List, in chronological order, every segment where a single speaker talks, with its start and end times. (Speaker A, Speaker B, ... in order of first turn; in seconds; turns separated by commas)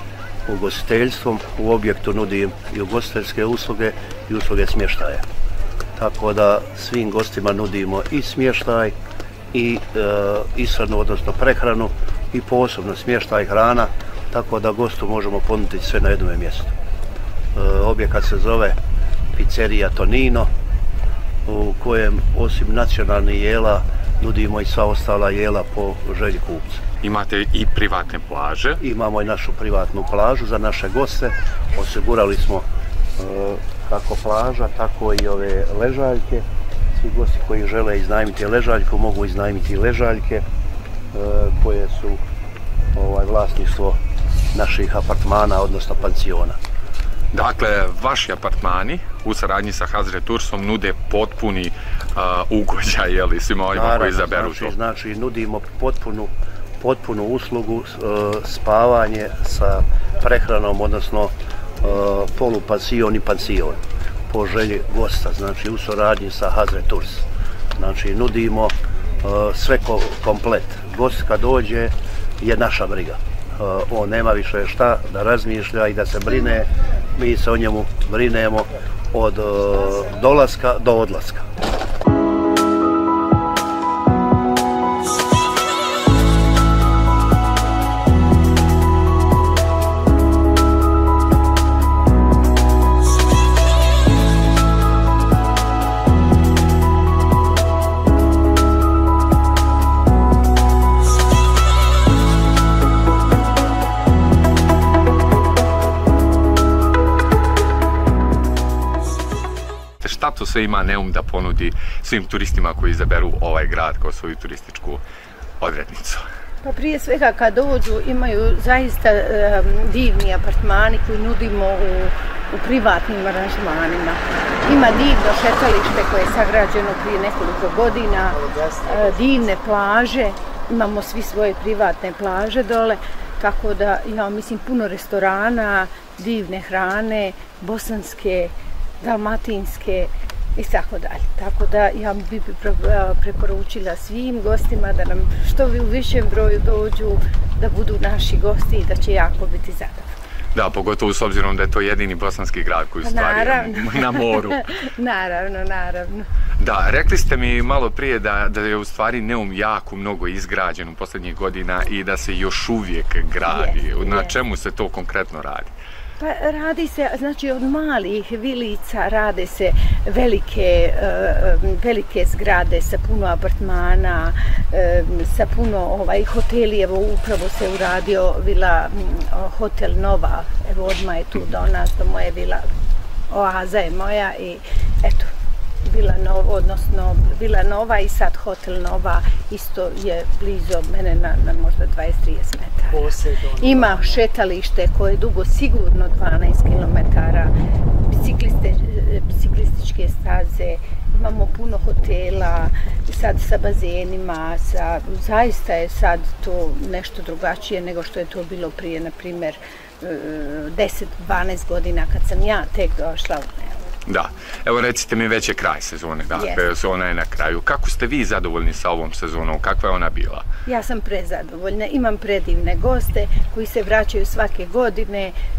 Speaker A: 0.5-5.2, Speaker A: 6.0-8.9, Speaker A: 9.5-16.7, Speaker A: 17.6-18.8, Speaker A: 19.4-20.5, Speaker A: 21.5-26.8, Speaker B: 27.0-28.8, Speaker A: 28.8-32.7, Speaker A: 33.2-36.5, Speaker A: 37.0-40.4, Speaker A: 41.1-42.2, Speaker A: 43.0-44.0, Speaker A: 44.5-46.6, Speaker B: 47.3-54.8, Speaker A: 53.7-67.2, Speaker A: 67.8-81.5, Speaker B: 110.0-115.0, Speaker B: 115.6-116.2, Speaker C: 116.6-150.1, Speaker B: 150.6-154.6, Speaker C: 153.0-156.3, Speaker B: 156.6-165.7, Speaker C: 163.4-164.4, Speaker C: 166.2-182.6, Speaker C: 183.3-185.3, Speaker C: 185.8-197.5, Speaker C: 198.1-213.8, Speaker B: 214.1-220.4, Speaker C: 216.3-216.7, Speaker C: 220.7-225.3